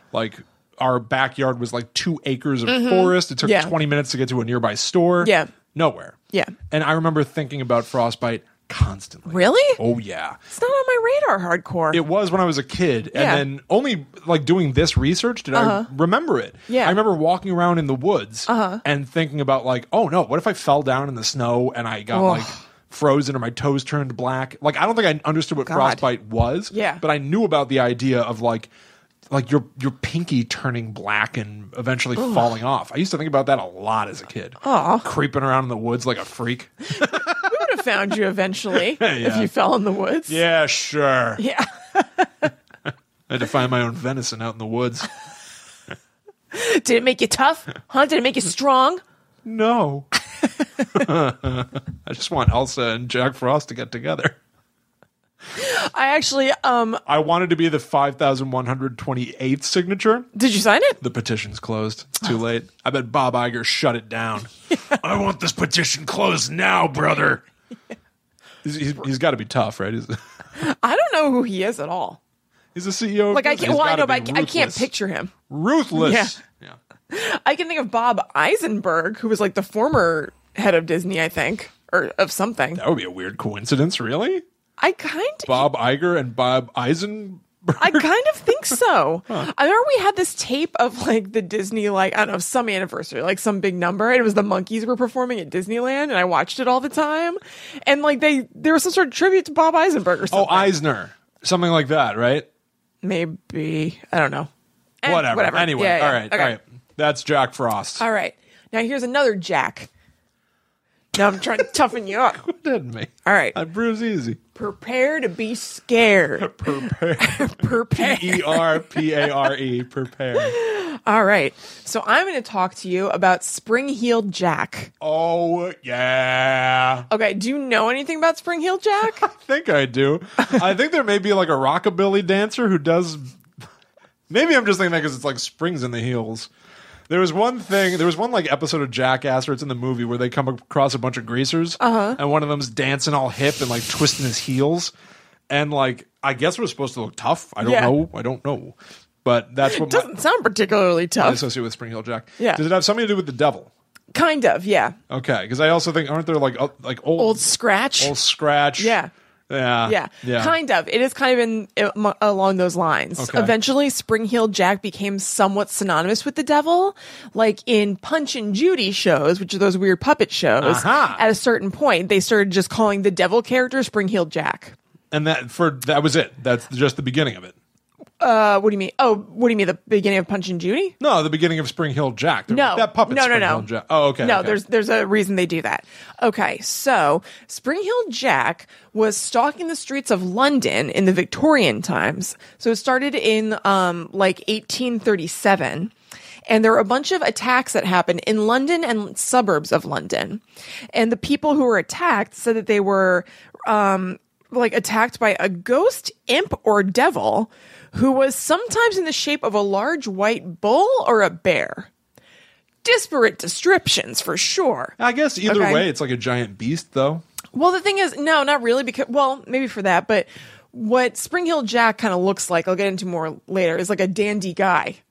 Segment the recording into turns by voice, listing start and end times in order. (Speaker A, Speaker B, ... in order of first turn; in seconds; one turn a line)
Speaker A: 0.1-6.2
Speaker B: 2.7-3.7
Speaker B: 5.2-5.5
Speaker A: 6.7-10.4
Speaker B: 9.3-9.8
Speaker B: 10.5-12.0
Speaker A: 11.9-28.7
Speaker B: 13.1-13.4
Speaker B: 15.5-15.9
Speaker B: 16.7-16.9
Speaker B: 18.5-18.8
Speaker B: 22.1-22.6
Speaker B: 25.6-26.0
Speaker B: 26.7-27.0
Speaker A: 29.3-37.7
Speaker B: 32.2-32.5
Speaker B: 34.6-35.1
Speaker B: 37.0-40.4
Speaker A: 38.7-39.5
Speaker A: 40.3-41.4
Speaker B: 41.4-42.5
Speaker A: 43.3-45.1
Speaker B: 46.5-49.0
Speaker A: 49.4-50.1
Speaker A: 50.9-54.4
Speaker B: 55.5-57.0
Speaker A: 57.0-60.3
Speaker B: 60.3-61.0
Speaker A: 61.0-67.4
Speaker A: 68.6-70.2
Speaker B: 70.5-72.2
Speaker A: 72.7-74.9
Speaker B: 73.3-75.3
Speaker A: 75.5-76.8
Speaker B: 75.9-76.4
Speaker B: 77.1-82.8
Speaker A: 82.8-84.4
Speaker B: 84.8-85.7
Speaker A: 85.5-88.0
Speaker B: 87.8-100.7
Speaker A: 100.3-102.5
Speaker B: 103.0-104.5
Speaker B: 105.0-106.5
Speaker A: 105.0-108.0
Speaker B: 108.0-109.9
Speaker B: 111.1-112.4
Speaker A: 112.4-114.4
Speaker B: 113.2-113.6
Speaker B: 114.5-119.0
Speaker A: 116.4-120.6
Speaker B: 120.3-124.9
Speaker A: 125.0-127.1
Speaker B: 127.1-129.2
Speaker A: 129.0-133.4
Speaker A: 134.3-136.5
Speaker A: 137.1-144.9
Speaker B: 141.8-142.2
Speaker A: 145.5-150.1
Speaker B: 147.6-147.9
Speaker B: 149.6-151.4
Speaker A: 151.2-153.7
Speaker B: 154.1-155.0
Speaker A: 155.1-157.4
Speaker B: 157.2-158.1
Speaker A: 158.0-159.0
Speaker B: 158.8-159.1
Speaker A: 159.5-160.5
Speaker B: 159.8-174.8
Speaker A: 163.2-163.5
Speaker A: 170.6-171.2
Speaker A: 175.1-177.5
Speaker B: 178.2-180.9
Speaker A: 181.0-184.6
Speaker B: 182.5-183.7
Speaker B: 184.2-195.9
Speaker B: 196.5-200.4
Speaker B: 200.9-211.9
Speaker B: 212.8-215.8
Speaker A: 215.0-217.2
Speaker B: 217.5-225.0